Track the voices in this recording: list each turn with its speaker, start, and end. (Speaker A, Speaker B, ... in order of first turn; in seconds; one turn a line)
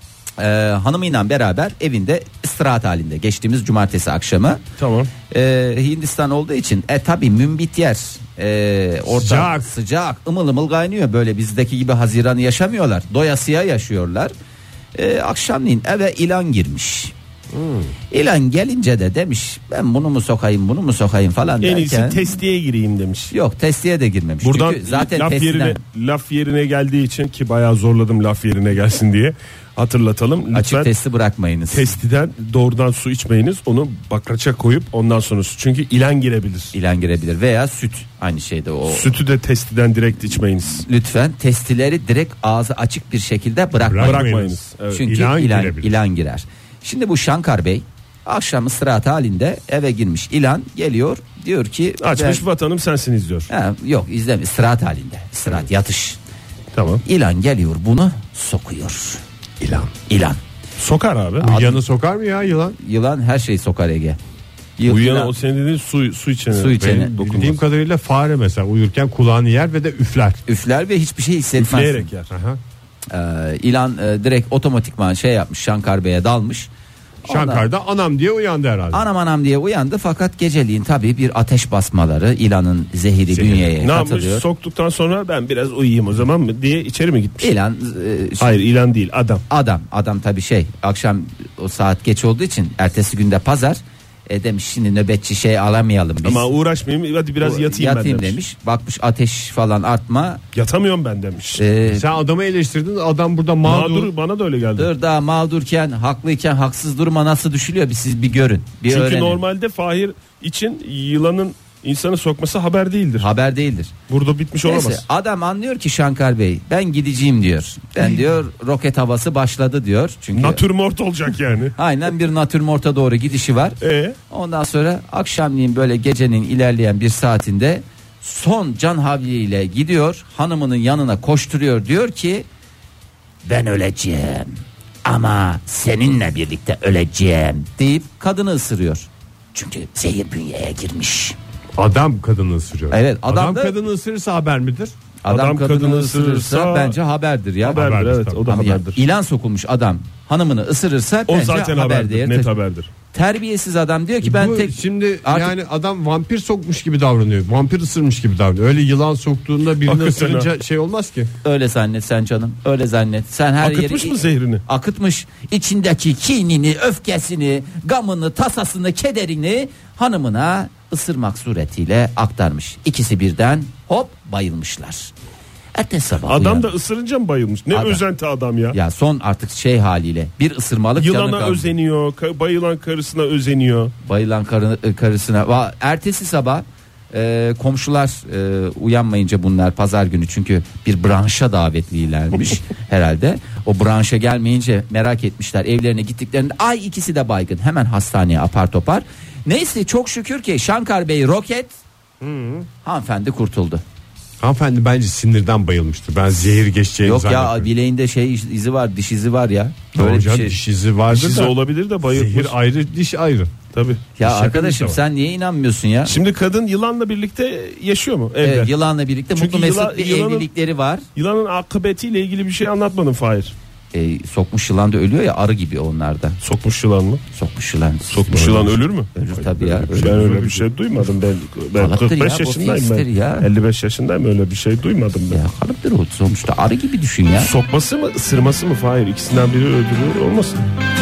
Speaker A: 0.4-4.6
Speaker B: 4.8-5.1
Speaker A: 5.3-14.3
Speaker C: 9.1-9.7
Speaker A: 14.9-17.1
Speaker C: 17.5-17.9
Speaker A: 18.1-22.3
Speaker B: 21.6-23.3
Speaker A: 23.3-25.8
Speaker B: 24.4-30.9
Speaker A: 30.5-31.9
Speaker B: 31.7-36.7
Speaker A: 36.7-39.1
Speaker B: 38.9-40.9
Speaker A: 40.8-44.3
Speaker C: 43.9-46.0
Speaker B: 44.0-45.0
Speaker A: 44.9-52.4
Speaker B: 52.0-53.5
Speaker A: 53.5-56.2
Speaker B: 56.7-57.0
Speaker A: 57.0-59.2
Speaker C: 59.6-59.9
Speaker A: 60.1-60.4
Speaker B: 60.8-61.5
Speaker A: 61.4-61.8
Speaker C: 61.4-62.8
Speaker A: 62.8-64.2
Speaker A: 64.8-65.3
Speaker B: 64.9-67.6
Speaker A: 66.5-67.1
Speaker C: 66.8-70.4
Speaker A: 70.5-72.1
Speaker B: 71.6-72.3
Speaker C: 72.3-72.6
Speaker A: 73.1-76.7
Speaker A: 77.2-77.7
Speaker C: 77.3-79.0
Speaker A: 78.9-84.5
Speaker B: 83.3-87.6
Speaker A: 87.4-88.5
Speaker B: 88.4-89.4
Speaker A: 89.5-96.5
Speaker B: 96.2-98.4
Speaker A: 97.4-100.4
Speaker B: 100.5-101.6
Speaker A: 101.6-102.1
Speaker C: 101.9-104.1
Speaker B: 103.7-104.9
Speaker A: 104.8-109.4
Speaker B: 108.9-113.3
Speaker A: 113.2-113.9
Speaker B: 114.1-115.0
Speaker A: 114.7-120.6
Speaker B: 120.3-121.8
Speaker A: 121.8-123.8
Speaker B: 123.8-124.2
Speaker A: 124.3-132.5
Speaker A: 133.4-141.4
Speaker C: 141.8-144.9
Speaker A: 142.9-143.8
Speaker A: 145.2-147.9
Speaker B: 145.3-147.0
Speaker B: 147.7-149.0
Speaker C: 147.7-148.6
Speaker A: 148.5-152.5
Speaker B: 151.3-152.9
Speaker A: 153.1-155.5
Speaker C: 154.2-161.3
Speaker B: 159.8-160.5
Speaker A: 161.4-175.1
Speaker B: 163.6-164.6
Speaker A: 175.8-176.7
Speaker B: 176.3-178.8
Speaker A: 177.7-178.0
Speaker A: 178.7-181.7
Speaker B: 181.0-183.9
Speaker A: 184.0-201.8
Speaker C: 202.2-202.7
Speaker A: 202.8-203.8
Speaker C: 204.4-207.7
Speaker A: 207.0-210.6
Speaker C: 209.9-211.5
Speaker B: 211.1-212.5
Speaker C: 212.1-213.5
Speaker B: 213.7-215.0
Speaker A: 214.2-216.2
Speaker B: 216.1-218.7
Speaker A: 218.4-221.1
Speaker B: 219.3-220.5
Speaker B: 221.2-223.5
Speaker A: 223.9-226.4
Speaker B: 226.4-227.2
Speaker A: 227.3-230.2
Speaker B: 228.1-229.1
Speaker C: 229.6-230.7
Speaker B: 229.8-235.4
Speaker A: 231.8-233.5
Speaker A: 235.3-237.5
Speaker B: 237.3-240.7